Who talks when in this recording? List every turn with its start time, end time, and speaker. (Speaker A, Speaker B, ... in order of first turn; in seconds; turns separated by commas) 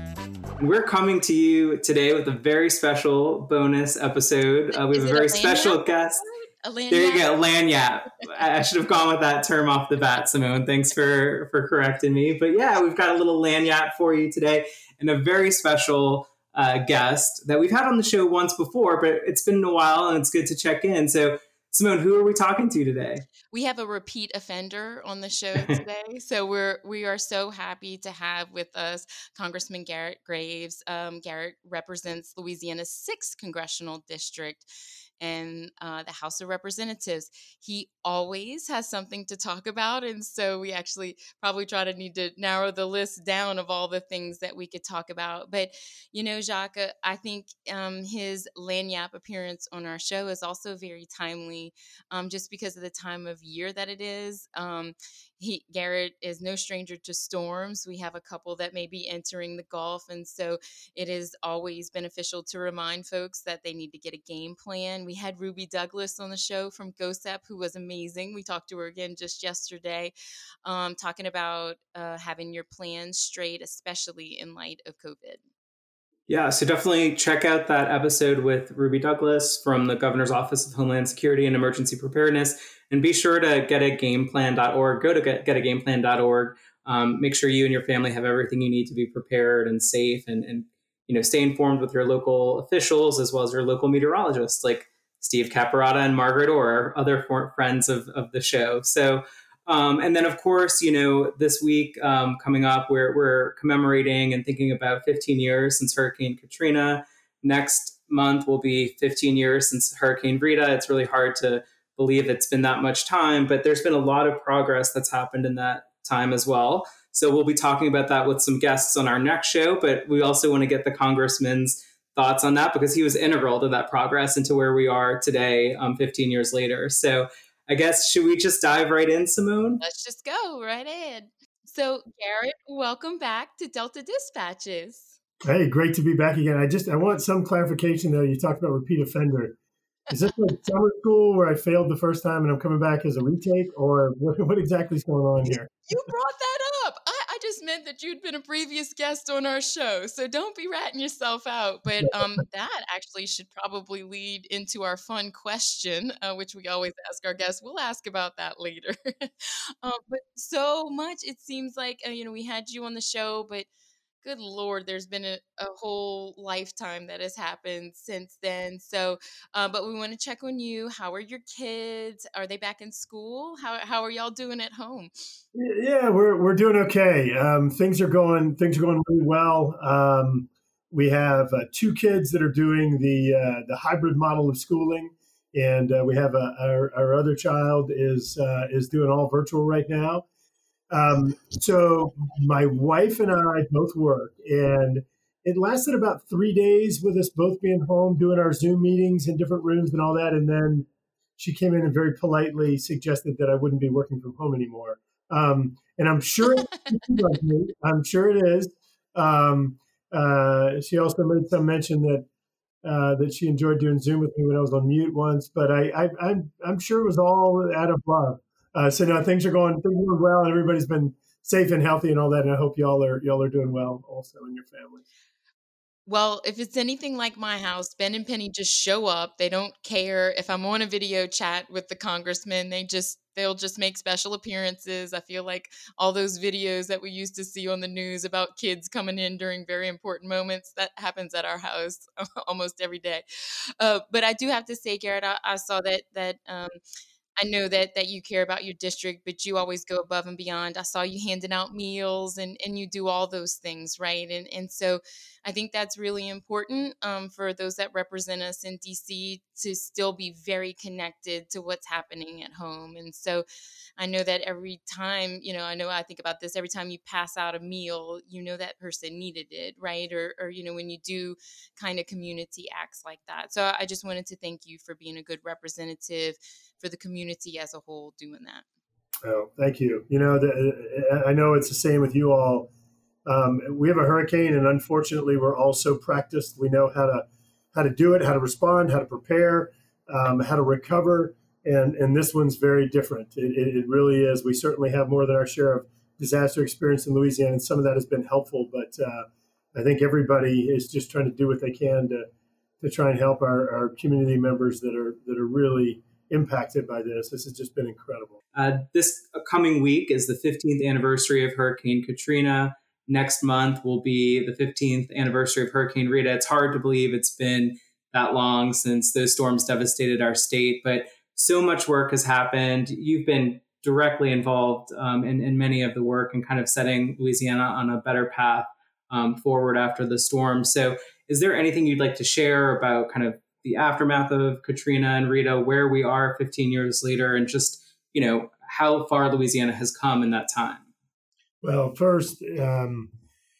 Speaker A: 0.6-6.2, Speaker B: 4.7-7.3, Speaker A: 6.9-23.2, Speaker B: 23.5-34.7, Speaker B: 35.2-70.1, Speaker B: 70.6-75.4, Speaker A: 76.3-129.8, Speaker B: 129.8-135.2, Speaker C: 135.4-139.5, Speaker C: 140.1-145.7, Speaker B: 145.9-163.7, Speaker B: 164.2-175.1, Speaker C: 175.5-190.2, Speaker C: 190.9-200.9, Speaker C: 201.4-212.2, Speaker C: 212.8-225.1, Speaker B: 226.1-243.2, Speaker B: 243.8-246.7, Speaker B: 247.4-263.4, Speaker B: 264.0-278.6, Speaker C: 279.2-282.7, Speaker C: 283.2-302.3, Speaker C: 302.8-308.4, Speaker A: 308.5-340.9, Speaker C: 341.6-343.1